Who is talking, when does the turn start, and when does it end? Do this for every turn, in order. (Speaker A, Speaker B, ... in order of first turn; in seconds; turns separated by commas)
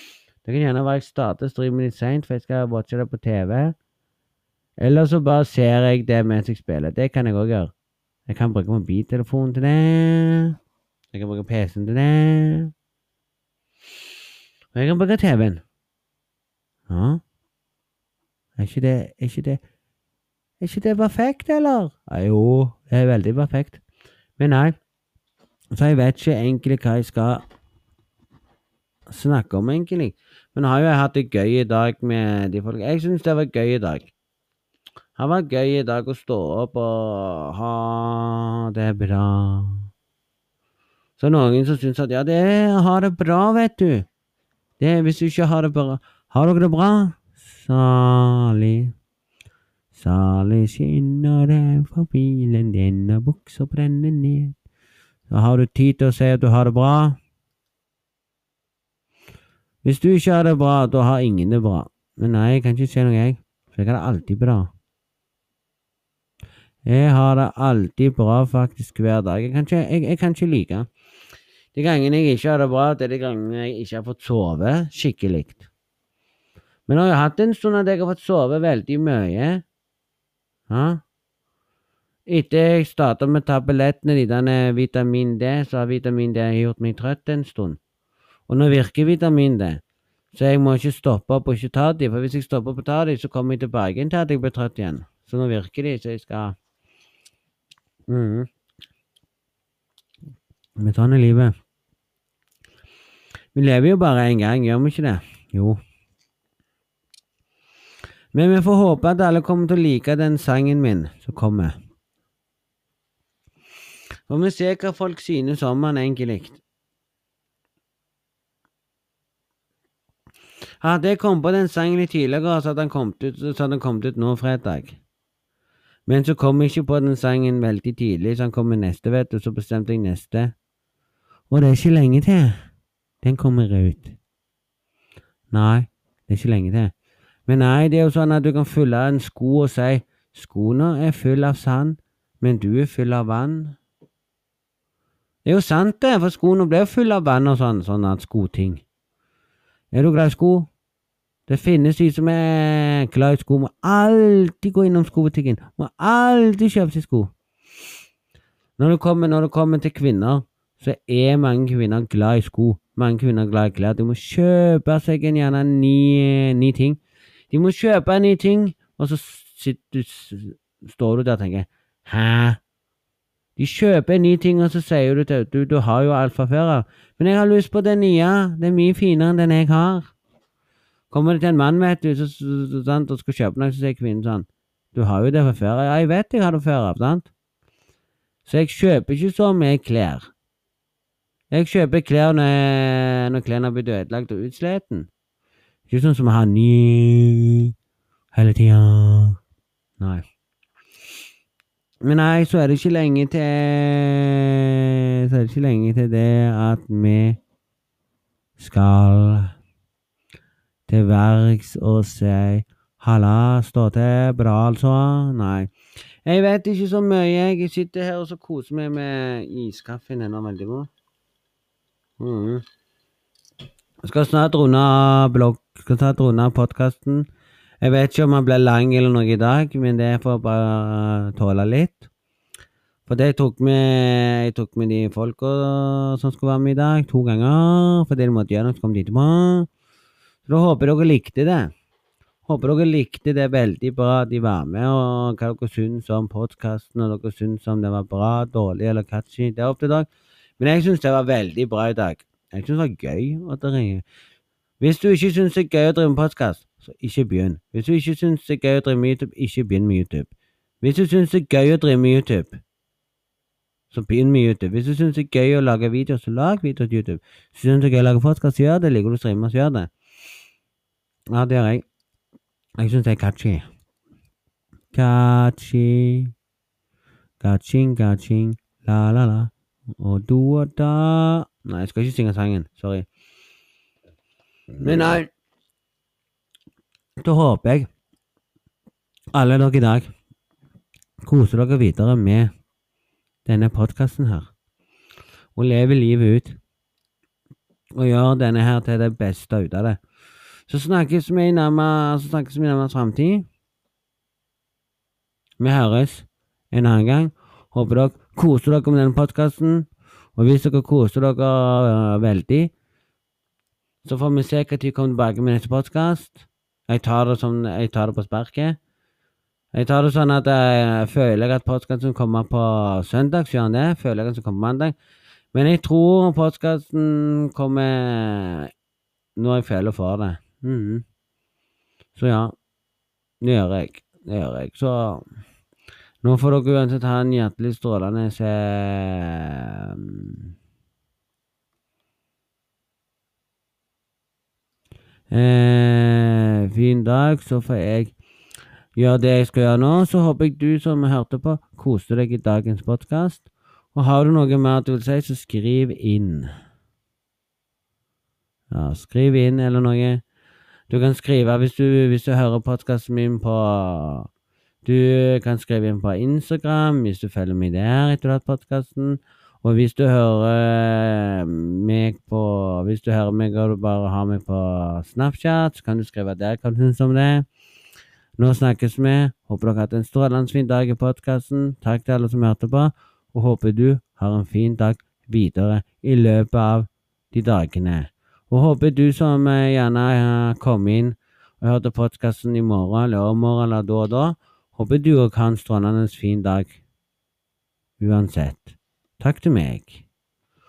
Speaker A: 0.4-3.7, Speaker A: 4.8-7.7, Speaker A: 8.3-10.5, Speaker A: 11.1-12.7, Speaker A: 14.7-15.6, Speaker A: 16.9-17.2, Speaker A: 18.6-19.6, Speaker A: 20.6-23.8, Speaker A: 24.4-24.8, Speaker A: 25.7-27.4, Speaker A: 29.1-34.1, Speaker A: 35.2-39.9, Speaker A: 41.2-44.0, Speaker A: 44.8-48.9, Speaker A: 49.9-54.5, Speaker A: 55.3-57.2, Speaker A: 59.8-64.7, Speaker A: 66.8-70.9, Speaker A: 71.7-75.6, Speaker A: 76.9-79.6, Speaker A: 80.7-81.0, Speaker A: 82.3-87.8, Speaker A: 88.5-89.8, Speaker A: 90.3-96.5, Speaker A: 98.1-98.5, Speaker A: 100.8-101.5, Speaker A: 103.5-105.8, Speaker A: 108.3-111.8, Speaker A: 114.3-116.6, Speaker A: 120.8-125.0, Speaker A: 126.1-130.5, Speaker A: 131.5-132.6, Speaker A: 133.2-134.2, Speaker A: 135.5-136.9, Speaker A: 137.5-143.8, Speaker A: 145.4-148.8, Speaker A: 149.9-150.7, Speaker A: 151.5-157.3, Speaker A: 158.8-167.0, Speaker A: 167.5-172.6, Speaker A: 173.6-180.1, Speaker A: 181.1-187.3, Speaker A: 188.4-190.3, Speaker A: 191.5-195.1, Speaker A: 195.9-197.7, Speaker A: 198.3-199.4, Speaker A: 202.0-204.4, Speaker A: 205.3-207.4, Speaker A: 208.6-209.5, Speaker A: 210.9-215.7, Speaker A: 216.2-220.9, Speaker A: 222.2-222.6, Speaker A: 224.0-227.2, Speaker A: 227.8-232.1, Speaker A: 233.1-239.7, Speaker A: 240.5-241.7, Speaker A: 242.5-250.1, Speaker A: 250.6-254.0, Speaker A: 254.8-260.3, Speaker A: 260.8-262.6, Speaker A: 263.9-269.9, Speaker A: 271.3-271.8, Speaker A: 272.8-273.6, Speaker A: 274.9-276.3, Speaker A: 277.4-283.1, Speaker A: 284.8-285.2, Speaker A: 287.2-287.9, Speaker A: 289.3-290.1, Speaker A: 291.2-292.5, Speaker A: 293.4-294.5, Speaker A: 295.6-296.6, Speaker A: 297.9-300.0, Speaker A: 300.7-303.4, Speaker A: 305.6-312.7, Speaker A: 314.0-318.8, Speaker A: 319.7-324.9, Speaker A: 325.5-328.7, Speaker A: 329.4-331.0, Speaker A: 332.1-332.5, Speaker A: 333.4-335.2, Speaker A: 336.2-340.5, Speaker A: 345.3-348.1, Speaker A: 348.9-356.5, Speaker A: 358.7-360.2, Speaker A: 360.9-364.3, Speaker A: 364.8-377.4, Speaker A: 378.4-396.8, Speaker A: 398.0-400.0